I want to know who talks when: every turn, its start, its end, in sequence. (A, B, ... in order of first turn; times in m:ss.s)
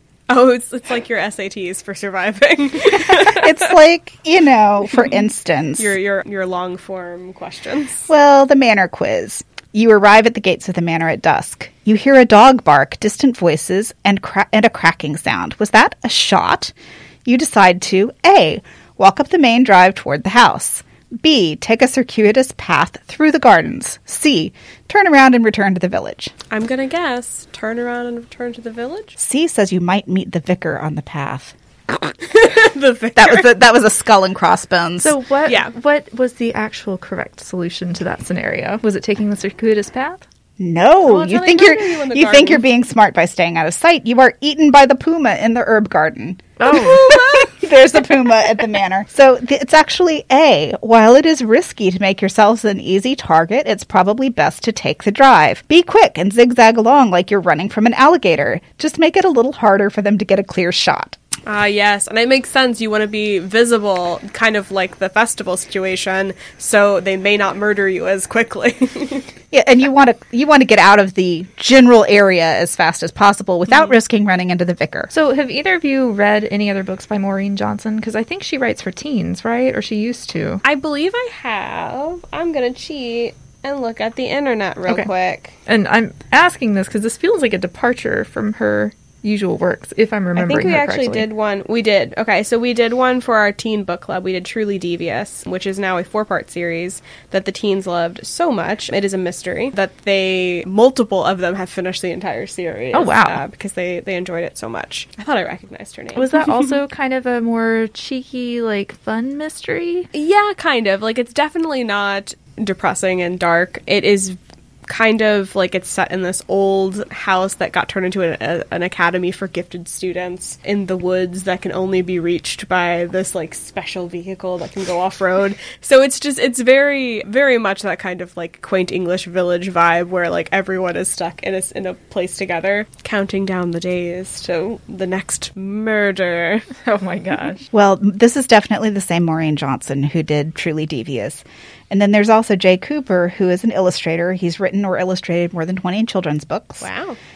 0:00.3-0:03.7 A
0:03.2-0:05.9 B
0:05.8-0:08.1 A
0:08.1-0:16.7 B
0:17.3-0:26.3 B
0:26.5-0:29.2 A
0:29.2-0:31.9 B
0:32.2-0:33.5 A
0:33.2-0:35.1 B
0:35.0-0:40.2 C
0:35.5-0:35.7 A
0:40.6-1:01.2 B
0:41.0-0:42.6 A
0:46.6-0:47.0 C
1:01.4-1:09.3 A
1:09.5-1:15.1 B
1:13.7-1:14.0 A
1:15.1-1:20.6 C
1:20.6-1:25.5 A
1:25.7-1:31.3 C
1:30.4-1:46.3 A
1:42.9-1:43.4 C
1:46.2-1:50.1 C
1:50.1-2:16.7 A
2:16.8-2:17.6 C
2:17.7-2:26.9 B
2:26.8-2:27.2 A